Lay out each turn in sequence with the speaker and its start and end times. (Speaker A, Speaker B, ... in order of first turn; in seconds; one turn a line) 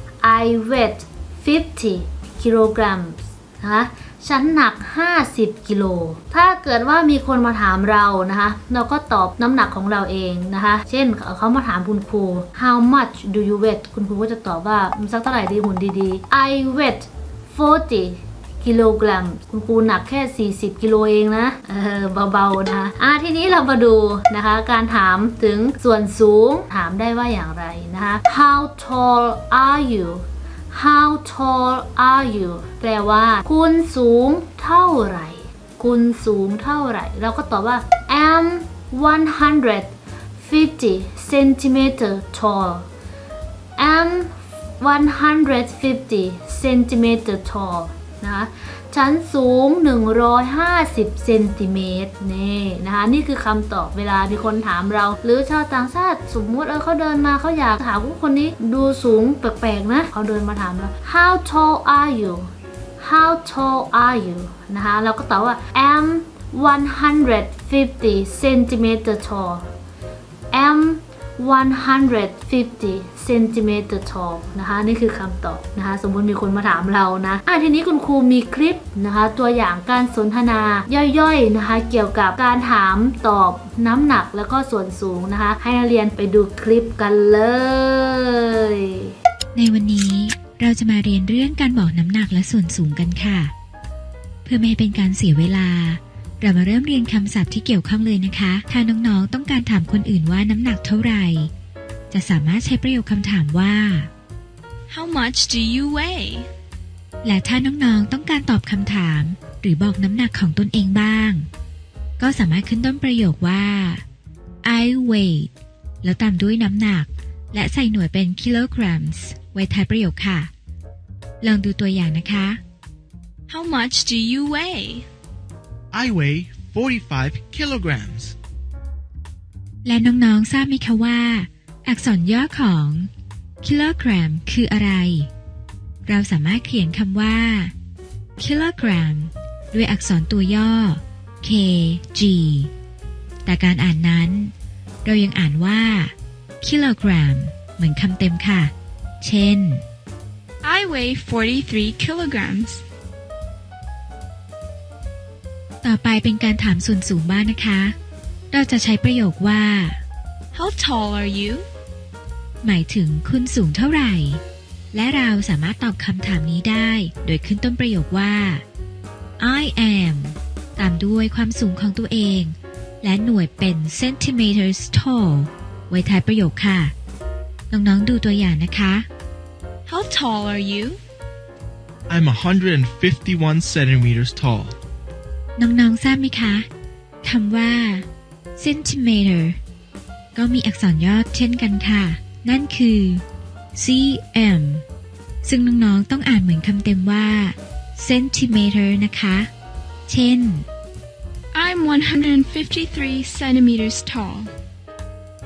Speaker A: 0.2-42.9
Speaker A: 43.8-62.5
Speaker A: 63.0-69.7
Speaker A: 70.5-89.1
Speaker B: 89.5-93.5
Speaker B: 94.5-101.5
Speaker B: 102.1-104.1
Speaker C: 104.9-106.5
Speaker B: 107.2-111.5
Speaker B: 112.2-114.0
Speaker B: 114.6-115.5
Speaker B: 116.0-120.5
Speaker B: 121.4-122.6
Speaker C: 123.5-125.1
Speaker D: 125.9-128.3
Speaker B: 129.8-133.1
Speaker B: 133.6-135.3
Speaker B: 136.1-137.7
Speaker B: 138.4-142.7
Speaker B: 143.4-144.5
Speaker B: 145.1-149.8
Speaker C: 150.6-152.8
Speaker B: 155.8-157.9
Speaker B: 158.5-160.0
Speaker C: 160.5-161.7
Speaker B: 162.6-164.4
Speaker B: 164.9-168.6
Speaker B: 169.4-176.9
Speaker B: 177.7-179.1
Speaker C: 179.9-181.0
Speaker D: 182.1-184.8
Speaker B: 185.6-186.7
Speaker B: 187.2-189.6
Speaker B: 190.3-193.2
Speaker B: 193.8-194.8
Speaker B: 195.4-199.5
Speaker B: 200.1-200.7
Speaker C: 201.5-204.5